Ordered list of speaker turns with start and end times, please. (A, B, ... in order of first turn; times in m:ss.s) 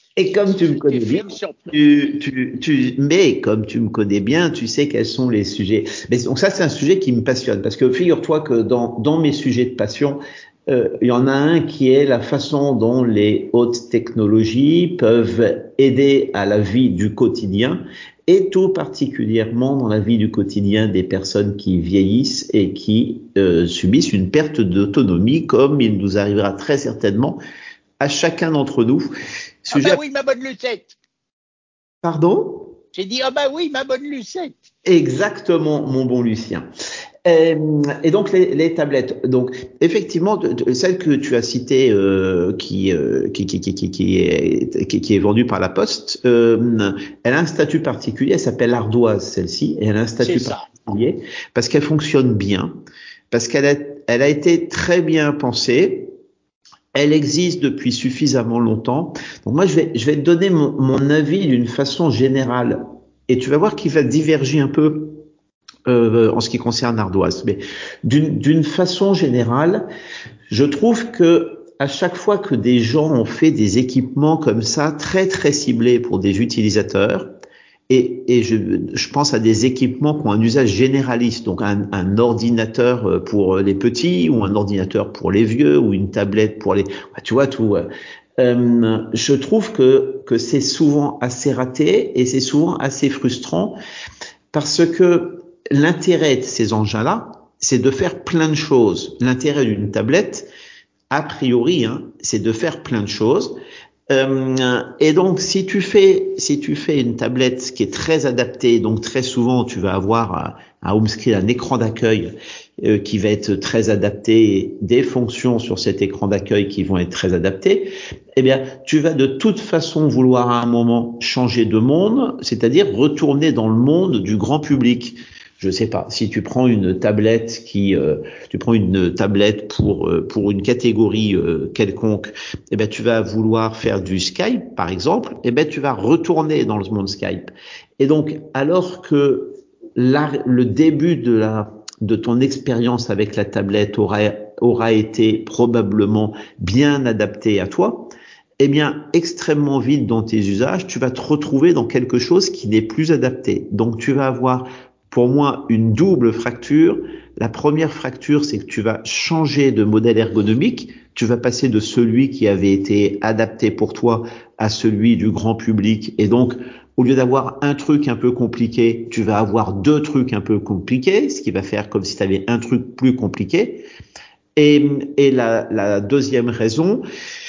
0:00.2-0:27.4 A
0:00.3-0:02.2 B
0:28.0-0:29.1 A
0:29.6-0:30.0 A
0:29.7-0:31.0 B
0:32.0-0:32.8 A
0:32.9-0:34.6 B
0:34.9-0:36.7 A
0:37.3-0:52.8 A
0:50.2-0:50.7 B
0:53.3-0:56.1 A
0:57.0-1:05.2 A
1:05.9-1:09.9 A
1:10.5-1:17.3 A
1:17.9-1:27.9 A
1:28.4-1:33.8 A
1:34.5-1:40.5 A
1:41.1-1:43.6 A
1:44.1-2:53.9 A
2:54.6-2:57.0 A